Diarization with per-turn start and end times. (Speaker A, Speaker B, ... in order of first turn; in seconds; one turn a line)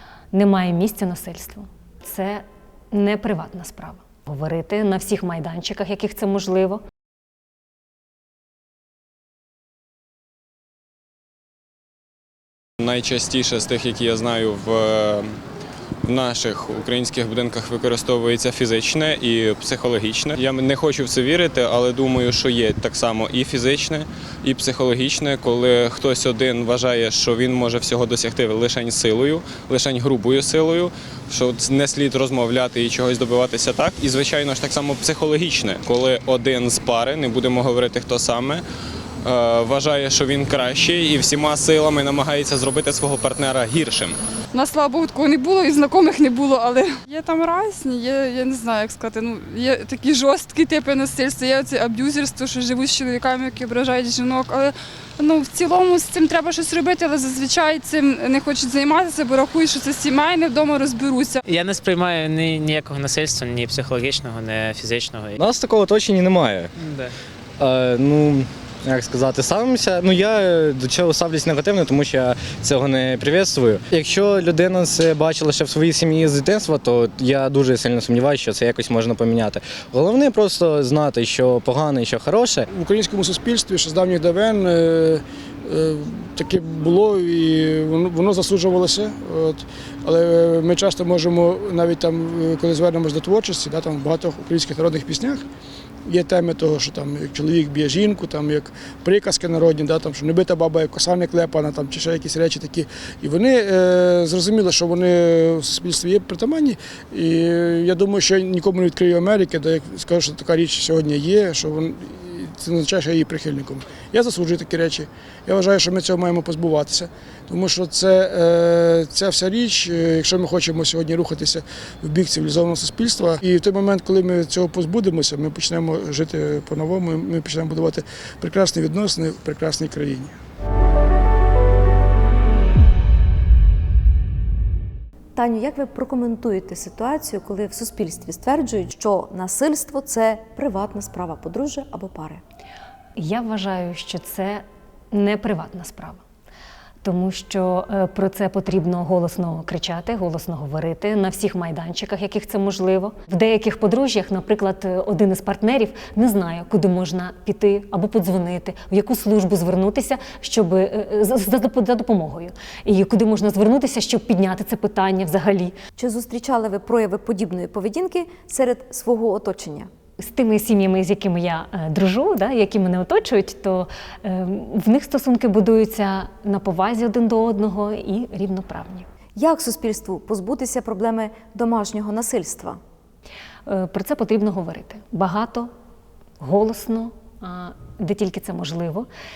Speaker A: 0.3-6.8
Speaker B: 12.8-15.3
Speaker B: 16.0-38.6
Speaker B: 39.2-44.2
Speaker C: 44.5-61.4
Speaker D: 61.5-65.4
Speaker E: 65.4-66.7
Speaker D: 66.8-67.1
Speaker E: 67.6-82.7
Speaker F: 82.7-95.4
Speaker F: 96.1-130.3
Speaker G: 135.3-142.4
Speaker A: 143.2-146.2
Speaker A: 147.0-165.7
Speaker G: 166.0-169.9
Speaker A: 170.2-179.1
Speaker G: 179.3-182.8
Speaker A: 183.7-185.7
Speaker A: 186.4-189.1